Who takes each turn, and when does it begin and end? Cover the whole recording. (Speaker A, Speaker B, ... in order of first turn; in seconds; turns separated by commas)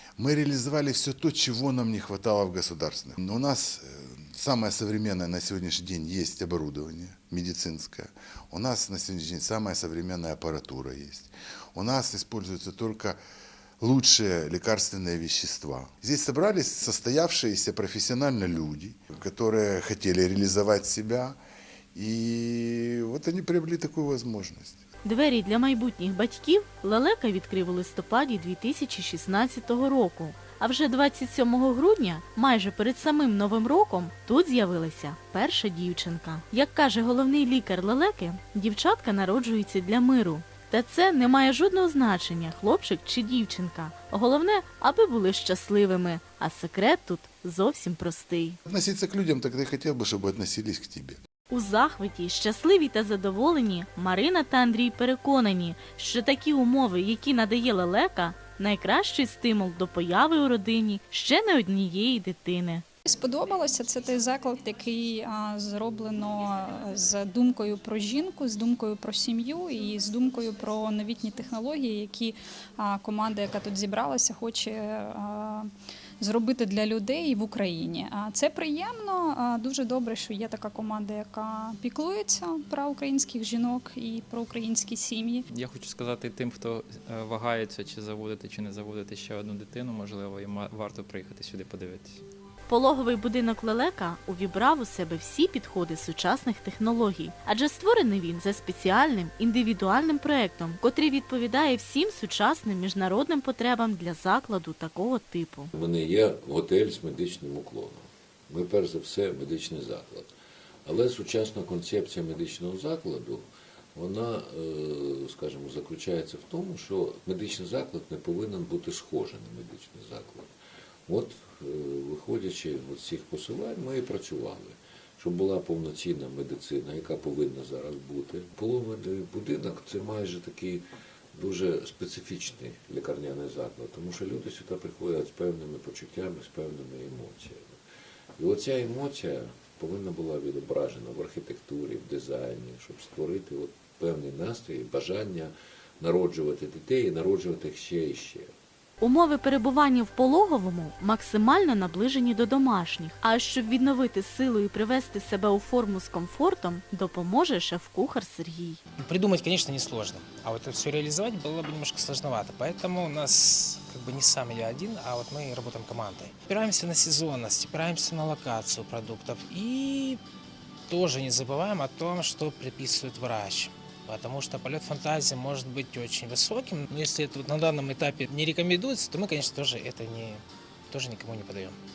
Speaker A: 0.2-13.2, Speaker A: 13.8-21.4, Speaker A: 21.9-24.8, Speaker B: 25.0-48.6, Speaker A: 48.6-51.2, Speaker B: 51.5-62.8, Speaker C: 63.1-75.7, Speaker C: 76.2-85.5, Speaker D: 85.7-92.1, Speaker B: 92.7-105.7, Speaker E: 105.7-110.3, Speaker E: 110.8-120.5, Speaker E: 121.1-137.8, Speaker E: 138.4-148.5, Speaker B: 149.0-158.8, Speaker F: 159.0-170.2, Speaker F: 170.9-181.8